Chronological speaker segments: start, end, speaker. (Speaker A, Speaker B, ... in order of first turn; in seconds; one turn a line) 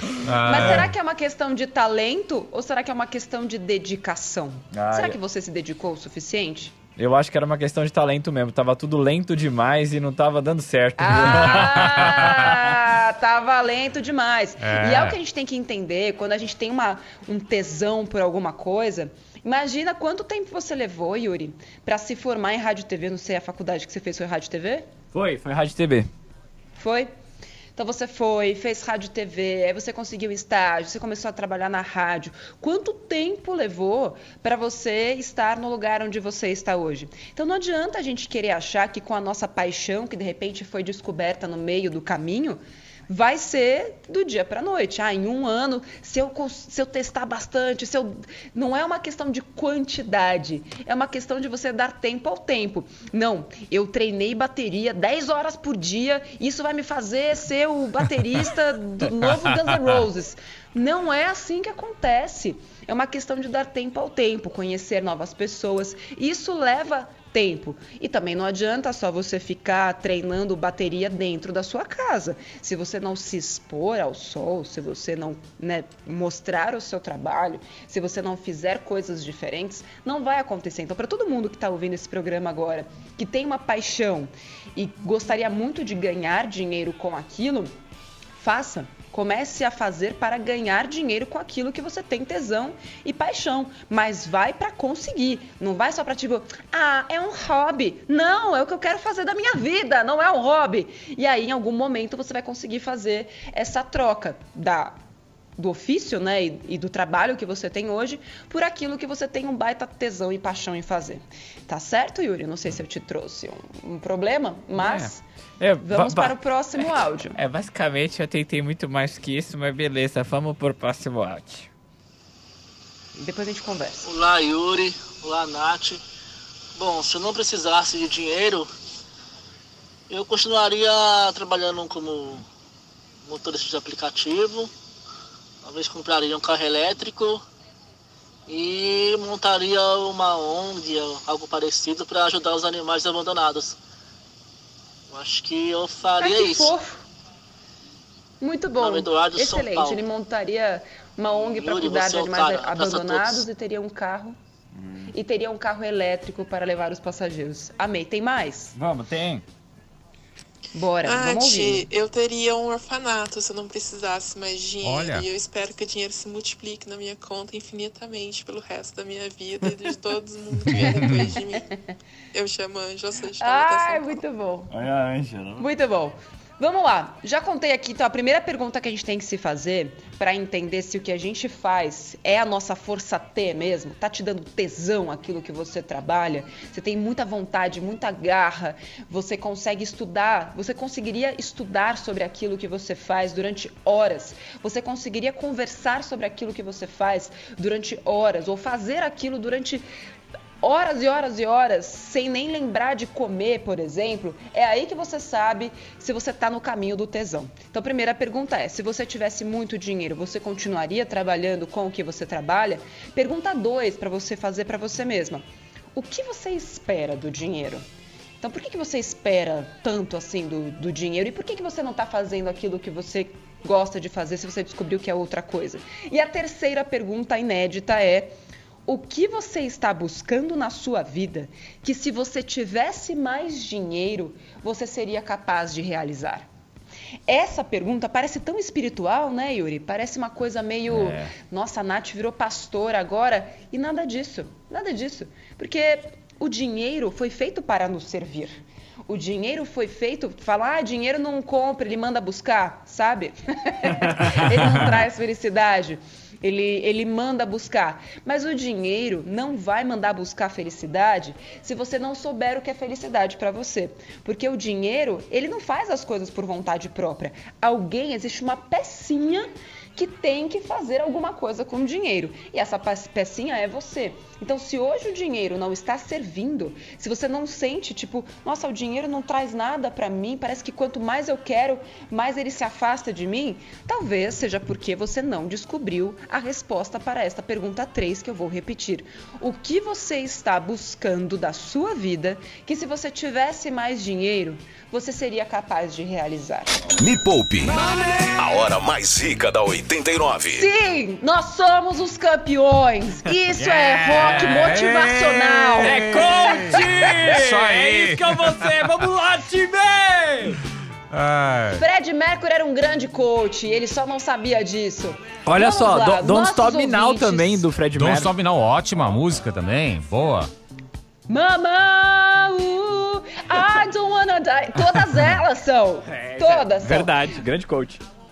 Speaker A: 0.2-0.9
Speaker B: 0.4-6.8
Speaker C: 0.6-0.8
Speaker C: 4.7-5.2
Speaker C: 7.0-12.5
Speaker B: 11.0-24.9
Speaker A: 11.4-12.6
Speaker A: 14.6-15.2
Speaker C: 25.1-26.1
Speaker B: 26.8-27.1
Speaker B: 27.8-87.7
Speaker B: 88.4-105.0
Speaker B: 105.6-115.2
Speaker C: 114.8-121.7
Speaker B: 115.8-117.4
Speaker B: 123.2-124.1
Speaker D: 124.0-126.0
Speaker D: 126.8-128.7
Speaker D: 130.1-132.4
Speaker D: 133.2-134.7
Speaker D: 135.6-137.4
Speaker D: 138.5-143.8
Speaker D: 145.1-146.7
Speaker B: 146.2-147.0
Speaker B: 148.4-154.4
Speaker D: 148.8-150.0
Speaker D: 151.4-153.4
Speaker C: 154.8-155.1
Speaker B: 155.1-158.8
Speaker C: 158.8-159.4
Speaker B: 160.7-161.9
Speaker E: 161.0-171.7
Speaker A: 164.8-165.3
Speaker A: 170.7-171.4
Speaker B: 170.8-171.3
Speaker E: 172.3-174.2
Speaker B: 173.4-174.7
Speaker C: 174.7-175.7
Speaker B: 175.6-199.9
Speaker B: 200.6-215.4
Speaker B: 215.9-217.8
Speaker B: 218.4-236.5
Speaker B: 237.3-296.7
Speaker C: 240.9-241.3
Speaker C: 253.9-254.6
Speaker F: 297.0-300.7
Speaker B: 300.5-306.8
Speaker C: 303.6-304.7
Speaker A: 304.1-308.5
Speaker C: 305.8-310.6
Speaker A: 311.1-311.8
Speaker B: 311.7-317.7
Speaker C: 315.5-318.3
Speaker A: 317.9-320.5
Speaker B: 321.3-327.3
Speaker C: 326.1-328.0